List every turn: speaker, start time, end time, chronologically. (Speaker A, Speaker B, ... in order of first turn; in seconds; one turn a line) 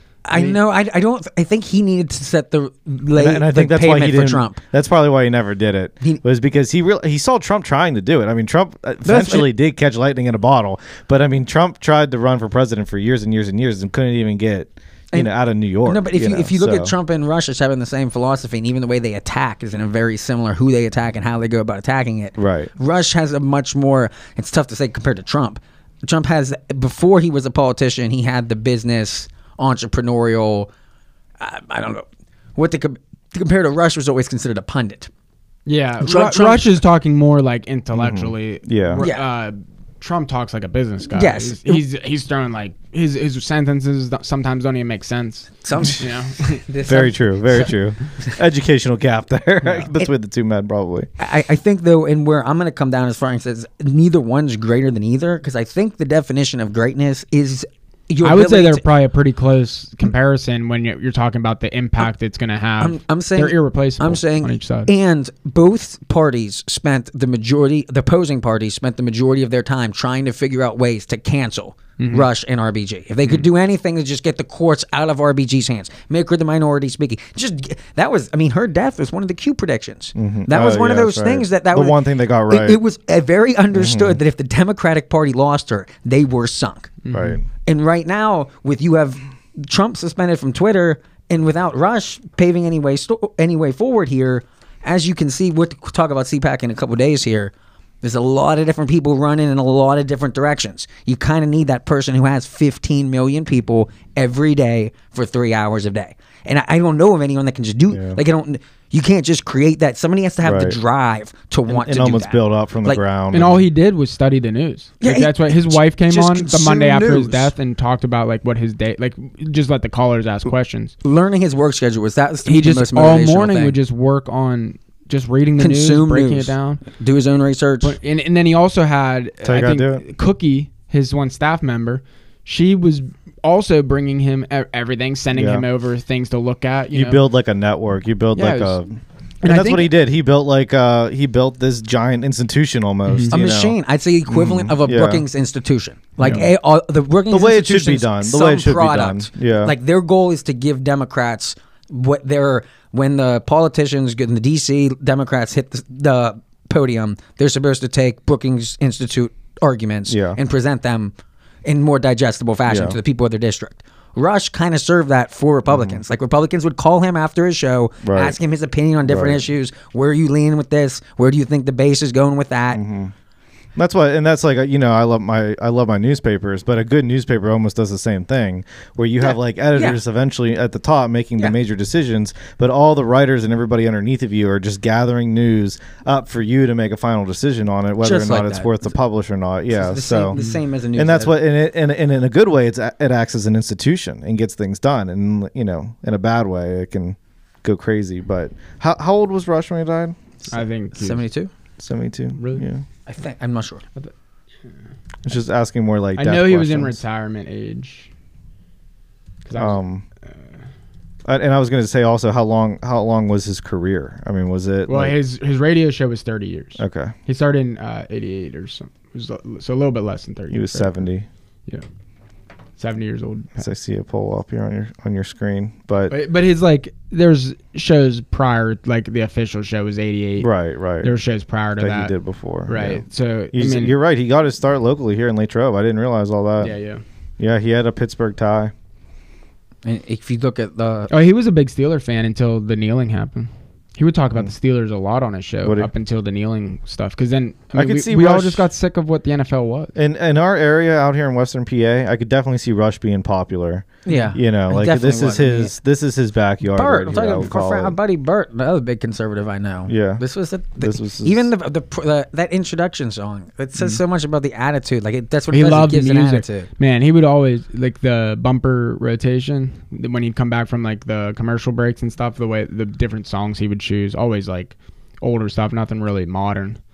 Speaker A: 0.3-4.6
Speaker B: 0.3-0.6
Speaker C: 3.1-16.9
Speaker A: 9.1-9.5
Speaker A: 15.8-30.7
Speaker C: 22.4-22.7
Speaker A: 31.4-32.0
Speaker A: 32.6-35.1
Speaker B: 35.7-46.6
Speaker A: 36.0-36.8
Speaker C: 37.9-39.0
Speaker A: 39.0-39.3
Speaker A: 41.1-41.8
Speaker A: 45.6-46.1
Speaker A: 46.6-47.7
Speaker C: 46.9-51.1
Speaker B: 49.6-49.9
Speaker A: 51.2-58.8
Speaker B: 58.2-64.9
Speaker A: 62.8-87.0
Speaker B: 72.0-72.3
Speaker C: 80.2-82.8
Speaker C: 83.7-84.2
Speaker B: 87.0-87.4
Speaker C: 87.1-87.4
Speaker A: 87.6-113.0
Speaker C: 107.9-108.2
Speaker C: 110.4-110.8
Speaker C: 111.7-113.6
Speaker B: 113.3-120.9
Speaker A: 115.0-117.5
Speaker A: 121.0-123.8
Speaker B: 122.5-126.8
Speaker A: 125.6-128.0
Speaker B: 127.8-137.2
Speaker C: 129.4-130.0
Speaker C: 135.3-135.7
Speaker C: 136.9-143.8
Speaker B: 138.4-138.8
Speaker B: 139.4-139.9
Speaker B: 143.1-143.3
Speaker A: 143.3-161.1
Speaker C: 144.3-145.2
Speaker B: 146.2-146.5
Speaker C: 147.3-149.8
Speaker C: 160.1-160.4
Speaker A: 161.7-172.8
Speaker C: 162.7-163.0
Speaker C: 165.7-166.0
Speaker C: 168.0-168.4
Speaker C: 169.1-169.4
Speaker C: 172.7-173.1
Speaker C: 173.8-190.4
Speaker A: 179.2-180.0
Speaker A: 188.0-188.8
Speaker A: 189.7-191.3
Speaker C: 191.0-200.2
Speaker B: 200.5-201.2
Speaker A: 200.9-201.5
Speaker C: 201.8-202.8
Speaker B: 202.4-202.7
Speaker A: 203.1-203.8
Speaker C: 205.2-207.0
Speaker B: 206.2-208.1
Speaker B: 209.4-209.8
Speaker C: 209.5-210.0
Speaker C: 211.3-215.2
Speaker B: 214.9-221.0
Speaker C: 216.8-217.2
Speaker C: 220.5-221.3
Speaker B: 222.8-223.7
Speaker C: 223.6-226.1
Speaker B: 226.1-230.5
Speaker C: 230.4-231.2
Speaker B: 231.0-232.1
Speaker C: 231.8-236.8
Speaker B: 232.7-233.9
Speaker B: 236.6-237.0
Speaker C: 237.4-238.7
Speaker A: 239.8-241.1
Speaker B: 241.1-249.9
Speaker C: 245.6-245.9
Speaker C: 247.7-248.7
Speaker C: 249.9-258.0
Speaker A: 254.1-255.8
Speaker A: 256.7-266.7
Speaker C: 259.9-260.2
Speaker C: 260.8-261.5
Speaker B: 265.5-276.8